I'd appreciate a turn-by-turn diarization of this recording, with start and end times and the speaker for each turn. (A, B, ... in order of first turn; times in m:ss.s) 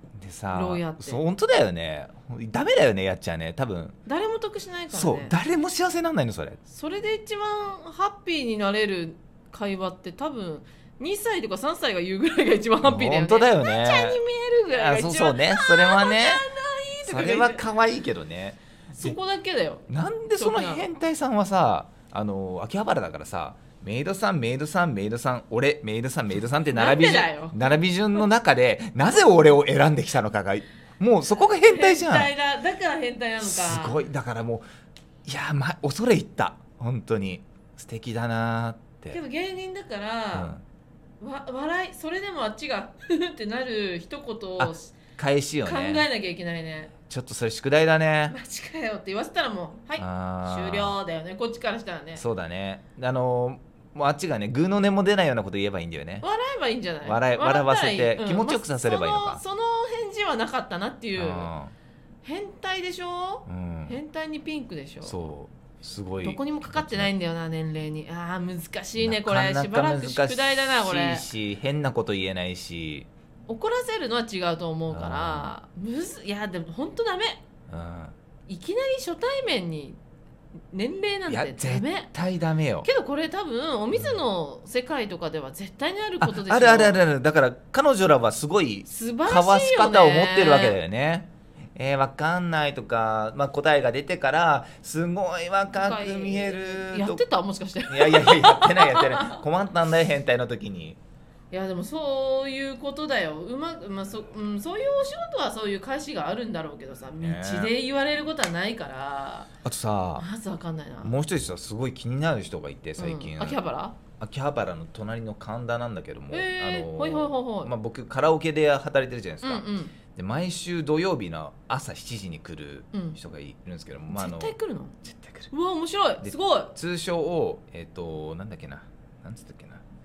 0:00.2-0:04.0 A
0:00.5-0:01.2 B
0:04.1-0:05.4 B
0:04.9-0:06.6 A
0:06.7-0:17.6 B
0:12.8-0:16.5 A
0:17.1-0:19.2 A
0:18.9-0:20.8 B
0:19.9-0:32.3 A
0:26.7-0:27.6 B
0:31.6-0:34.0 B
0:33.4-0:34.7 A
0:35.2-0:39.2 A
0:39.1-0:40.5 B
0:40.3-0:40.6 A
0:41.2-0:44.9 B
0:44.6-0:46.1 A
0:45.6-0:46.9 B
0:47.1-0:48.4 A
0:48.3-0:52.2 B
0:50.0-0:51.0 A
0:52.2-0:56.3 A
0:56.2-1:01.5 B
0:57.0-0:59.4 A
1:01.2-1:01.7 A
1:02.2-1:05.2 B
1:03.5-1:04.0 A
1:05.0-1:07.1 A
1:06.2-1:11.3 B
1:09.0-1:13.1 A
1:13.5-1:17.4 B
1:14.9-1:15.6 A
1:17.7-1:18.2 A
1:18.5-1:20.0 B
1:20.7-1:22.1 B
1:21.3-1:22.9 A
1:22.8-1:27.0 B
1:26.2-1:37.2 A
1:28.9-1:30.8 B
1:35.7-1:39.4 B
1:37.9-1:41.0 A
1:41.5-1:49.5 B
1:47.2-1:47.7 A
1:49.6-1:50.3 A
1:50.2-1:51.2 B
1:51.0-1:53.6 A
1:53.0-1:54.0 B
1:54.2-2:05.5 A
1:56.3-1:57.7 B
1:59.4-1:59.9 B
2:02.9-2:03.2 B
2:04.1-2:05.0 B
2:05.5-2:06.7 B
2:06.2-2:09.8 A